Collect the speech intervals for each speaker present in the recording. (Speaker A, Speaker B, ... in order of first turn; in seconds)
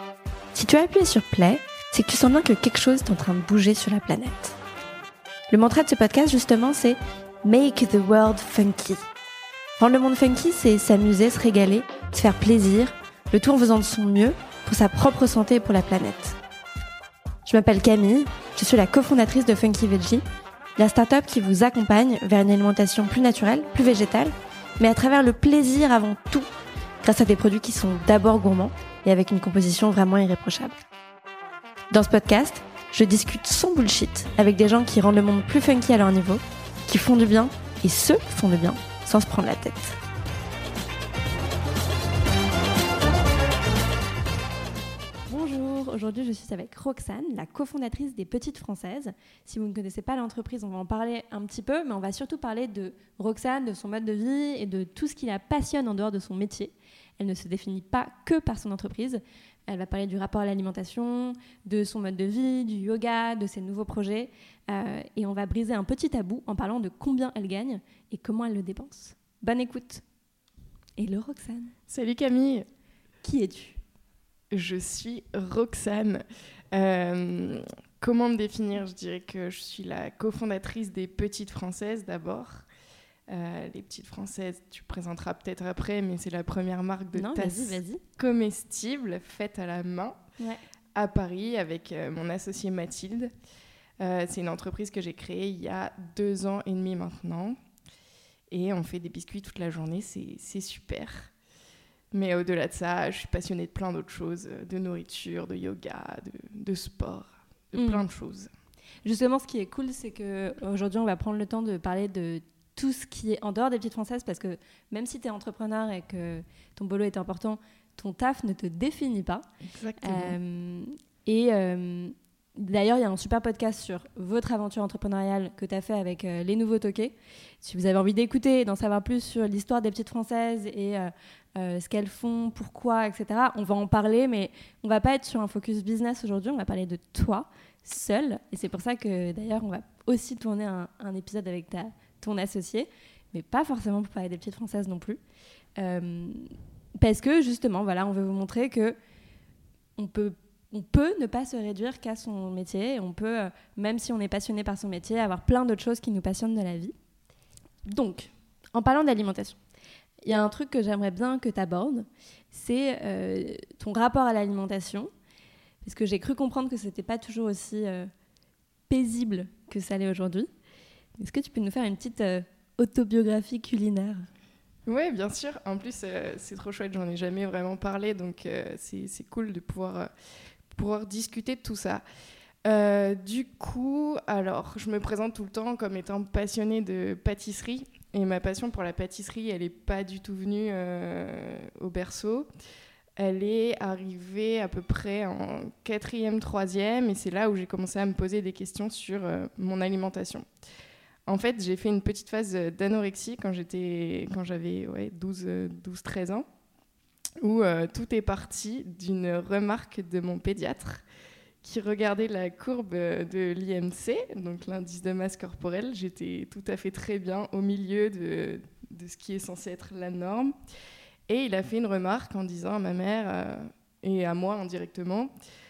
Speaker A: 0.5-4.6, 5.5-9.0, 9.8-16.4, 17.4-20.2, 20.8-26.5, 27.0-30.7, 31.9-40.0, 45.3-70.0, 71.0-71.7, 73.2-73.8, 87.1-88.0, 107.8-108.0, 109.0-119.5, 120.0-145.2, 145.8-148.9, 150.0-156.9, 157.8-159.6, 160.2-165.1, 165.8-168.1, 168.9-170.5, 171.2-174.3
Speaker B: 71.9-72.7, 74.5-82.7, 83.3-90.2, 91.0-93.3, 94.0-97.6, 98.5-101.3, 102.1-108.5, 119.7-120.4, 174.9-180.1, 180.7-182.0, 182.6-192.5, 193.2-200.4, 201.3-206.4, 207.4-211.0, 211.6-220.5, 221.3-225.3